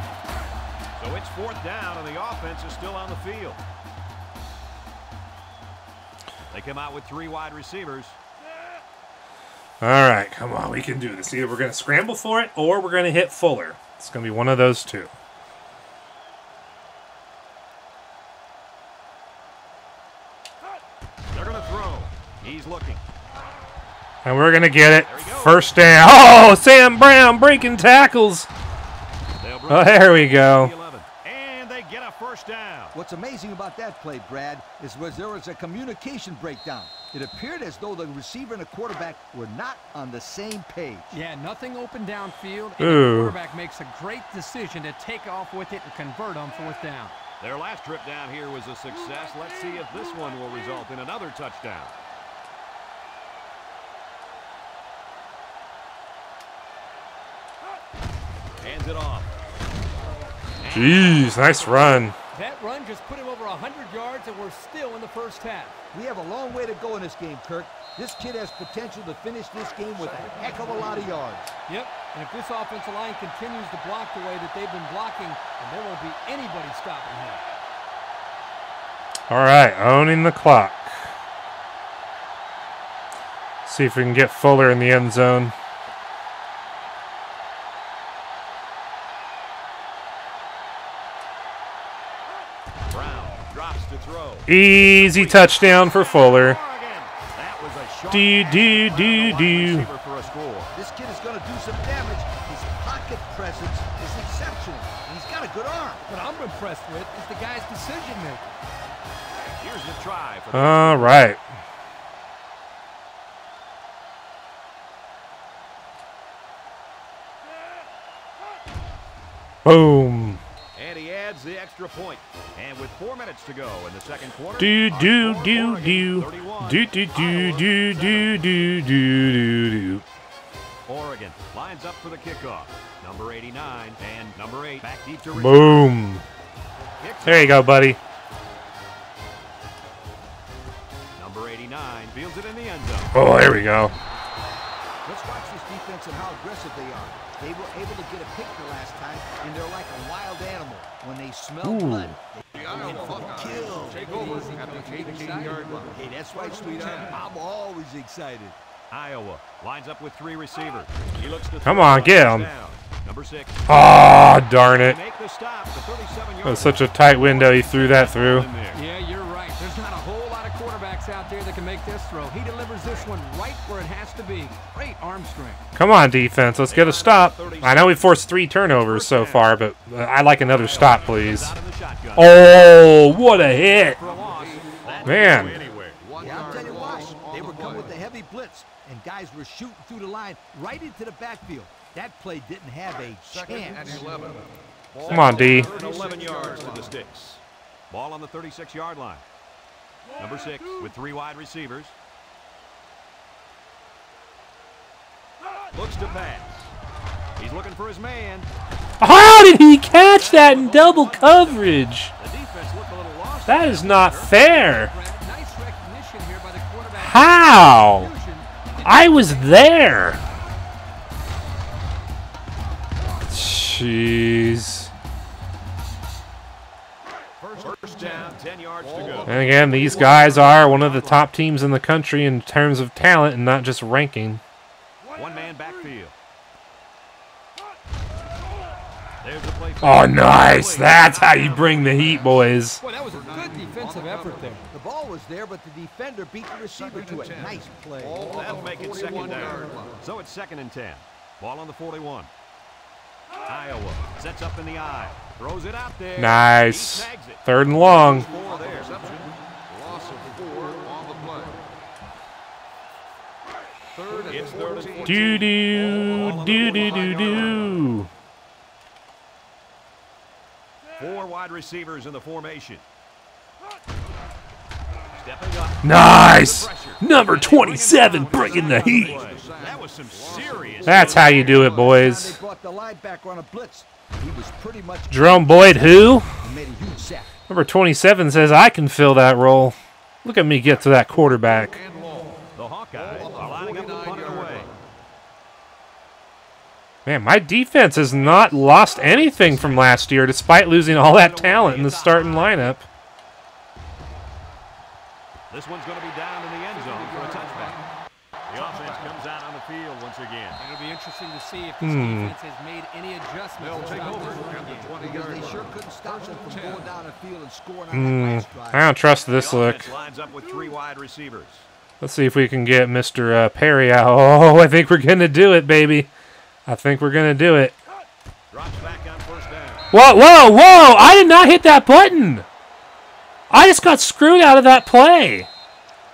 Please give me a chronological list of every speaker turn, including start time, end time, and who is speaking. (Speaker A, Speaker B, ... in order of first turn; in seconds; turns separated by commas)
Speaker A: 1.0-3.6, Speaker A: 6.5-8.2, Speaker B: 9.8-15.1, Speaker A: 21.3-23.0, Speaker B: 24.2-28.5, Speaker A: 25.1-25.6, Speaker A: 29.4-32.9, Speaker B: 29.7-30.7, Speaker C: 32.9-41.1, Speaker D: 41.1-47.1, Speaker B: 42.8-43.4, Speaker A: 47.4-51.9, Speaker A: 58.6-59.3, Speaker A: 60.6-62.1, Speaker B: 60.7-62.1, Speaker D: 62.3-65.8, Speaker C: 65.9-71.5, Speaker E: 69.9-71.2, Speaker D: 71.7-77.4, Speaker B: 79.3-81.0, Speaker B: 83.6-85.5, Speaker A: 92.9-100.7, Speaker B: 94.5-96.6, Speaker B: 98.1-99.9, Speaker C: 100.7-106.0, Speaker D: 106.0-108.4, Speaker A: 109.6-111.2, Speaker B: 110.5-111.4, Speaker B: 119.6-120.4, Speaker A: 120.8-128.3, Speaker B: 124.6-130.0, Speaker A: 130.9-135.9, Speaker B: 135.3-136.2, Speaker A: 137.0-137.7, Speaker B: 137.2-138.0, Speaker A: 141.2-143.2, Speaker B: 143.1-143.9, Speaker C: 145.0-154.4, Speaker B: 151.6-152.1, Speaker E: 152.5-157.2, Speaker D: 153.7-155.6, Speaker C: 155.9-158.6, Speaker A: 158.9-163.6, Speaker B: 161.6-162.5, Speaker B: 163.7-165.0, Speaker A: 164.7-168.8, Speaker B: 166.4-168.5, Speaker D: 168.7-175.6, Speaker B: 175.8-181.6, Speaker A: 176.7-178.1, Speaker A: 178.7-179.5, Speaker A: 180.4-182.6, Speaker B: 182.2-184.0, Speaker A: 183.2-186.0, Speaker E: 184.0-187.9, Speaker B: 185.0-185.6, Speaker C: 186.2-194.1, Speaker E: 193.2-196.9, Speaker C: 194.9-195.7, Speaker A: 195.0-199.2, Speaker B: 195.1-195.7, Speaker A: 200.2-201.9, Speaker A: 205.7-206.7, Speaker A: 207.4-208.5, Speaker B: 209.0-212.1, Speaker A: 210.1-214.4, Speaker B: 213.5-214.9, Speaker D: 214.3-219.7, Speaker B: 216.9-218.1, Speaker B: 218.8-220.2, Speaker B: 223.3-224.9, Speaker E: 227.4-230.9, Speaker A: 227.6-231.2, Speaker B: 229.2-234.4, Speaker A: 235.1-236.1, Speaker A: 239.2-242.3, Speaker B: 239.8-242.8, Speaker E: 241.9-244.7, Speaker D: 242.8-244.6, Speaker C: 244.7-248.3, Speaker E: 246.7-250.0, Speaker A: 248.3-252.3, Speaker A: 253.4-259.0, Speaker B: 256.2-258.3, Speaker E: 257.9-261.6, Speaker E: 263.9-265.5, Speaker A: 264.3-267.8, Speaker B: 265.0-268.1, Speaker A: 271.0-272.8, Speaker A: 275.1-281.6, Speaker B: 275.8-279.2, Speaker E: 278.5-281.8, Speaker B: 280.8-282.4, Speaker C: 280.9-287.3, Speaker B: 285.1-286.3, Speaker B: 287.5-291.8, Speaker E: 291.5-292.4, Speaker A: 292.6-294.7, Speaker E: 292.9-294.7, Speaker B: 297.1-302.9, Speaker A: 298.4-300.0, Speaker A: 300.9-302.7, Speaker A: 305.5-307.8, Speaker E: 306.7-307.8, Speaker E: 308.5-309.2, Speaker A: 308.5-310.6, Speaker D: 310.6-314.9, Speaker B: 311.8-312.3, Speaker E: 313.6-316.9, Speaker C: 315.0-318.9, Speaker B: 317.9-319.9, Speaker A: 319.3-321.7, Speaker B: 322.0-326.1, Speaker B: 326.6-327.8, Speaker A: 328.5-329.9, Speaker B: 329.9-332.4, Speaker B: 333.5-335.5